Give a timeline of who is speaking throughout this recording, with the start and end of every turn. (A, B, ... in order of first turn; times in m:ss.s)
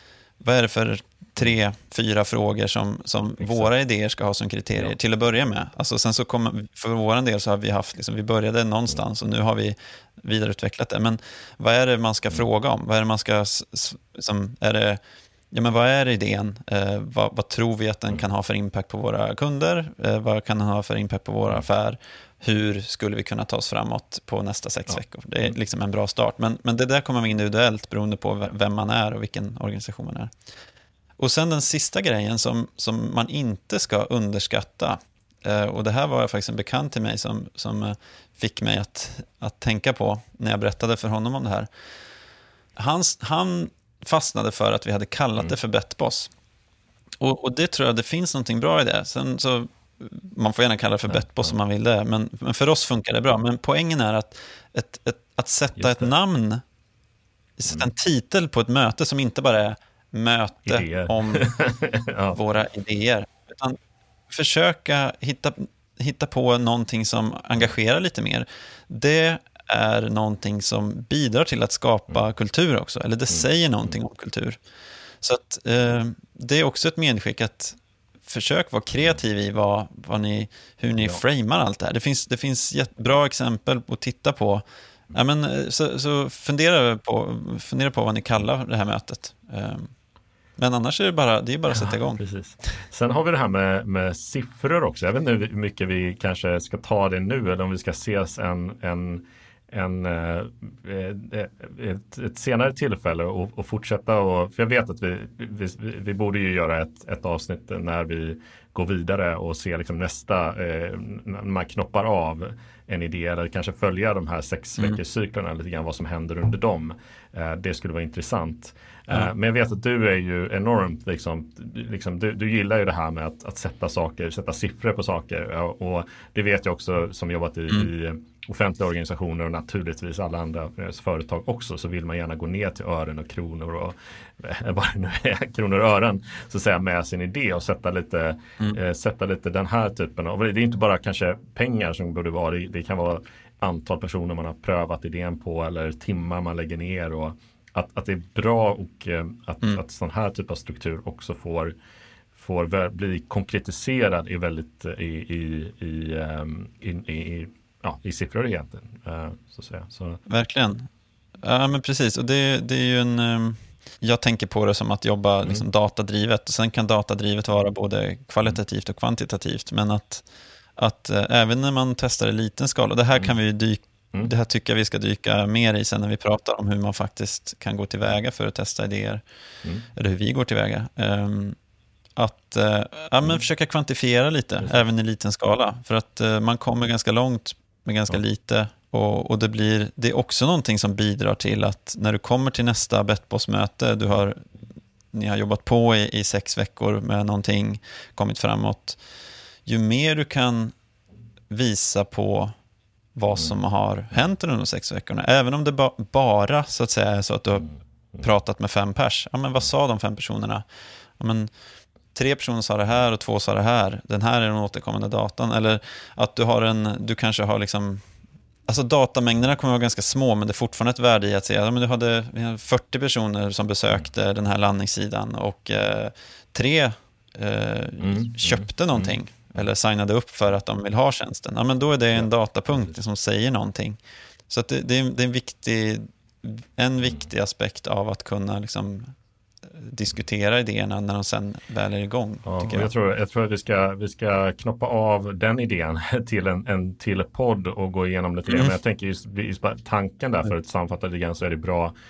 0:00.4-0:15.0 A
0:15.5-0:30.3 A
0:31.2-0:41.7 A
0:42.8-0:46.3 A
0:47.2-0:56.6 A
0:55.8-0:56.1 B
0:57.6-1:01.5 A
1:00.6-1:02.4 B
1:02.3-1:03.8 A
1:04.3-1:14.6 A
1:15.2-1:29.9 A
1:30.6-1:32.2 A
1:31.7-2:31.7 B
2:32.3-2:40.2 B
2:40.3-2:40.9 A
2:41.4-2:50.2 A
2:50.8-2:59.2 A
2:59.9-3:01.6 A
3:02.2-3:14.5 A
3:15.1-3:19.0 A
3:19.6-3:20.7 A
3:21.5-3:22.5 A
3:23.2-3:30.6 A
3:31.2-3:31.5 A
3:32.1-3:38.0 A
3:38.7-3:54.0 A
3:48.0-3:49.1 B
3:54.5-3:59.1 A
3:59.7-4:02.9 A
4:02.4-4:11.9 B
4:08.5-4:08.8 A